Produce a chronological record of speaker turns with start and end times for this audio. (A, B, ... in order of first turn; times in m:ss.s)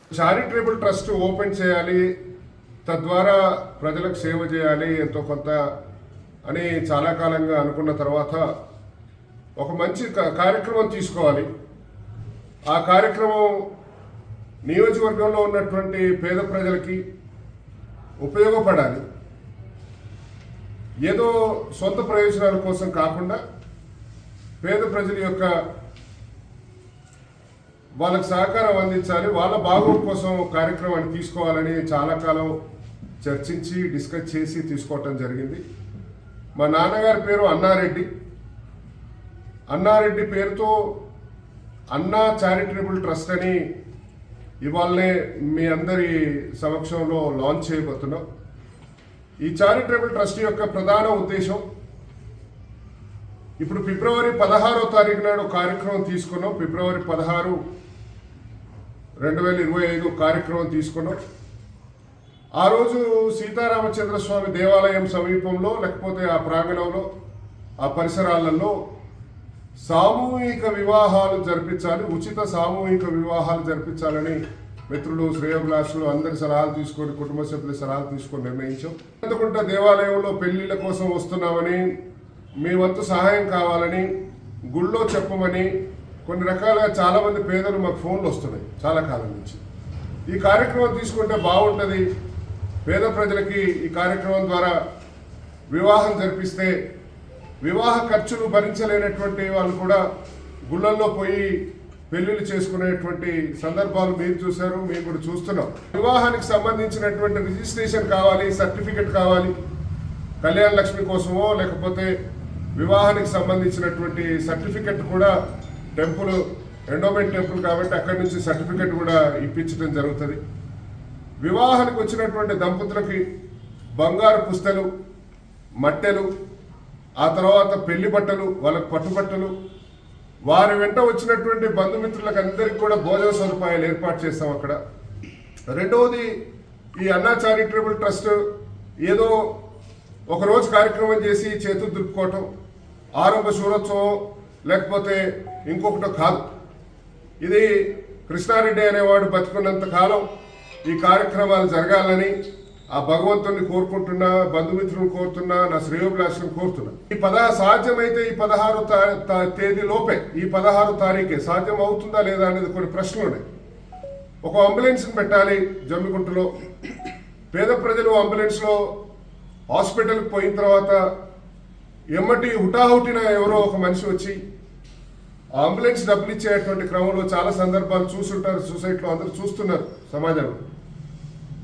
0:00.1-0:02.1 A
0:02.8-0:05.6 A
0:06.4-0:08.4 A
0:09.6-0:11.5 A
0:12.7-0:13.6 A
0:14.6-0:17.0 A
0:18.2-0:19.0 A
0:21.0-0:23.4 A
0:24.6-0:25.5 A
0:28.0-0:32.5 A
0:33.2-0:35.6 A
0:36.6-0:38.1 A
0:39.7-0:41.0 A
0:41.9-0:43.6 A
0:44.6-0:48.2 A
0:49.4-0:51.6 A
0:53.6-0:57.6 A
0:59.2-1:01.2 A
1:02.6-1:07.1 A
1:07.8-1:08.8 A
1:09.8-1:21.9 A
1:22.6-1:24.1 A
1:24.7-1:25.7 A
1:26.2-1:29.6 A
1:30.3-1:32.0 A
1:32.8-1:34.8 A
1:35.7-1:36.7 A
1:37.6-1:40.0 A
1:40.7-1:41.6 A
1:42.1-1:49.5 A
1:50.4-1:52.1 A
1:52.8-1:55.3 A
1:55.9-2:00.4 A
2:01.4-2:03.2 A
2:04.0-2:04.9 A
2:05.8-2:06.3 A
2:07.2-2:09.5 A
2:10.5-2:14.8 A
2:15.7-2:16.3 A
2:17.0-2:18.4 A
2:19.0-2:19.4 A
2:20.3-2:22.5 A
2:23.2-2:26.5 A
2:27.4-2:27.7 A
2:28.3-2:30.2 A
2:30.8-2:32.3 A
2:32.9-2:43.4 A
2:44.4-2:46.5 A
2:47.5-2:48.9 A
2:49.7-2:51.0 A
2:52.1-2:54.4 A
2:55.6-3:00.6 A